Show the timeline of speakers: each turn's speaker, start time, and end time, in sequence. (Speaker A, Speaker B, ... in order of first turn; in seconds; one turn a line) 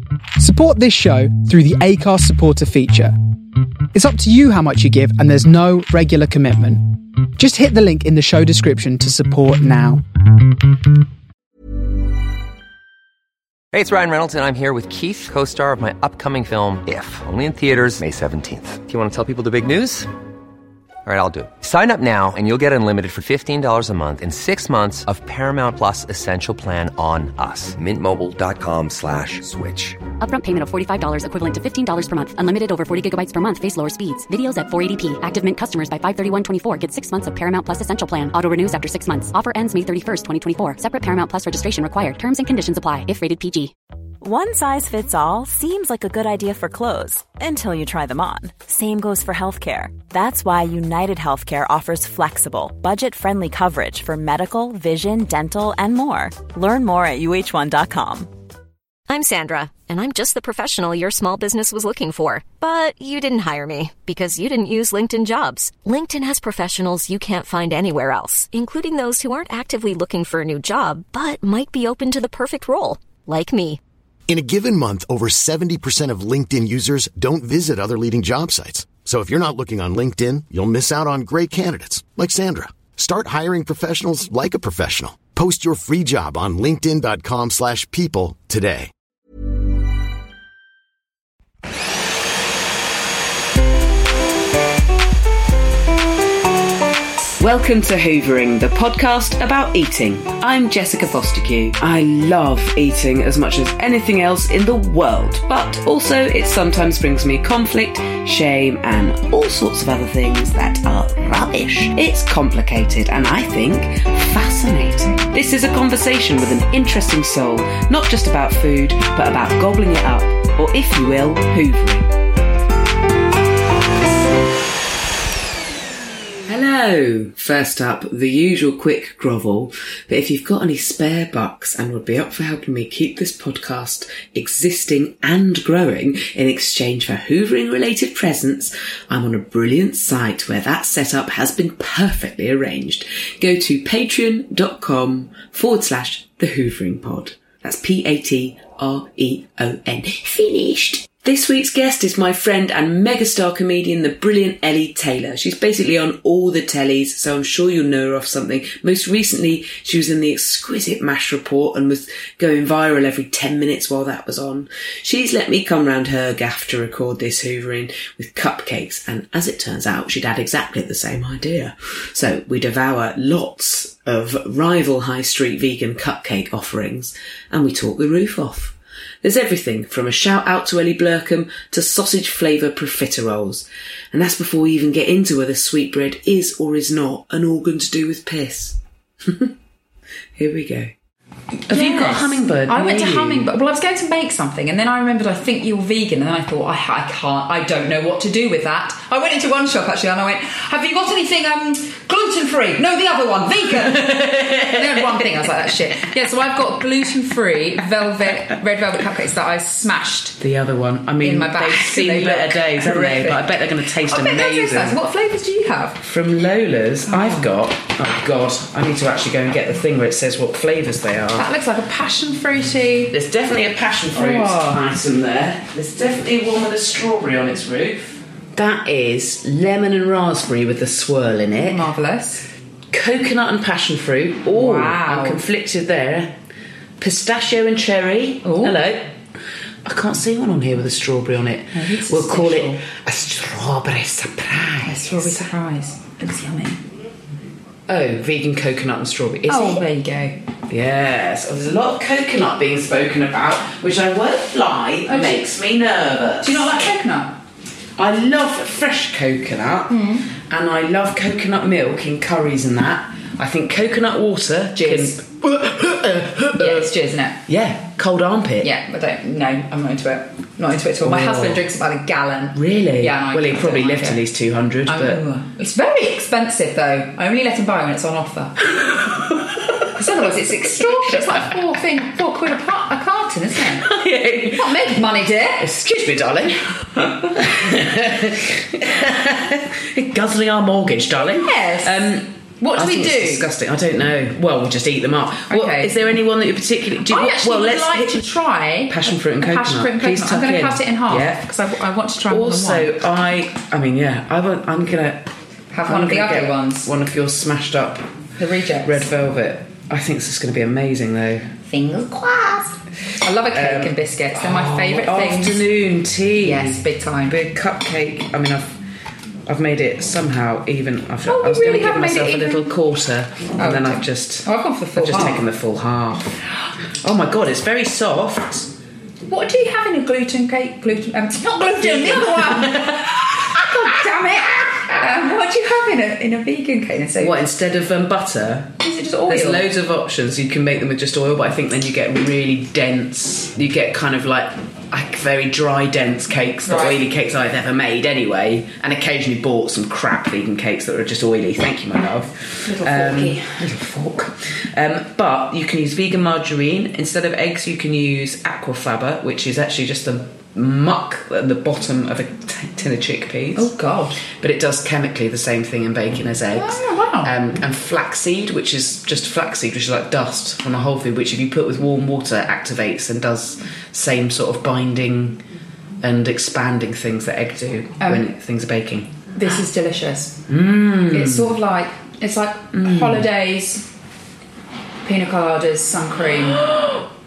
Speaker A: 0.4-3.1
Speaker A: 3.9-10.0
Speaker B: 13.7-20.1
Speaker B: 21.0-30.0
Speaker C: 30.2-43.7
Speaker D: 44.2-58.3
Speaker E: 59.1-73.8
Speaker F: 74.3-88.9
Speaker G: 97.4-122.1
Speaker G: 126.5-189.5
Speaker G: 190.4-190.9
Speaker H: 191.7-210.4
Speaker G: 191.7-193.5
Speaker G: 203.8-205.2
Speaker G: 210.4-215.0
Speaker H: 211.2-216.0
Speaker G: 216.0-221.5
Speaker H: 217.1-217.5
Speaker H: 221.3-223.1
Speaker G: 223.1-231.9
Speaker H: 224.1-224.8
Speaker H: 231.6-232.5
Speaker G: 232.9-236.3
Speaker H: 234.5-235.4
Speaker G: 237.0-239.1
Speaker H: 238.4-238.7
Speaker G: 239.8-245.3
Speaker H: 241.7-242.8
Speaker H: 244.8-246.8
Speaker G: 247.9-249.8
Speaker H: 249.5-250.4
Speaker G: 250.7-256.8
Speaker H: 255.1-255.4
Speaker H: 256.4-257.4
Speaker G: 258.0-266.9
Speaker H: 259.9-260.2
Speaker H: 264.8-265.1
Speaker H: 266.6-267.4
Speaker G: 267.5-268.7
Speaker H: 268.6-274.2
Speaker G: 271.0-271.6
Speaker G: 272.5-275.2
Speaker H: 274.9-278.7
Speaker H: 279.9-283.9
Speaker G: 283.8-284.9
Speaker H: 284.5-285.7
Speaker G: 285.6-298.2
Speaker H: 291.2-293.5
Speaker H: 295.5-295.9
Speaker H: 297.0-302.9
Speaker G: 298.9-301.4
Speaker G: 302.3-305.3
Speaker H: 305.7-306.9
Speaker G: 305.8-308.1
Speaker H: 308.4-309.1
Speaker G: 308.8-311.5
Speaker H: 311.6-315.7
Speaker G: 313.5-318.8
Speaker H: 316.4-317.4
Speaker G: 319.5-326.4
Speaker H: 321.3-322.7
Speaker H: 323.6-325.4
Speaker G: 327.0-328.7
Speaker H: 329.3-337.4
Speaker G: 331.8-333.4
Speaker G: 337.2-338.8
Speaker H: 338.8-339.6
Speaker G: 339.3-363.7
Speaker H: 346.6-347.0
Speaker H: 352.6-353.6
Speaker H: 363.5-364.2
Speaker G: 364.3-375.4
Speaker H: 366.5-367.3
Speaker G: 376.0-379.1
Speaker H: 378.0-378.3
Speaker H: 379.3-380.4
Speaker G: 380.5-381.5
Speaker H: 381.1-383.9
Speaker G: 382.7-383.2
Speaker H: 385.0-386.7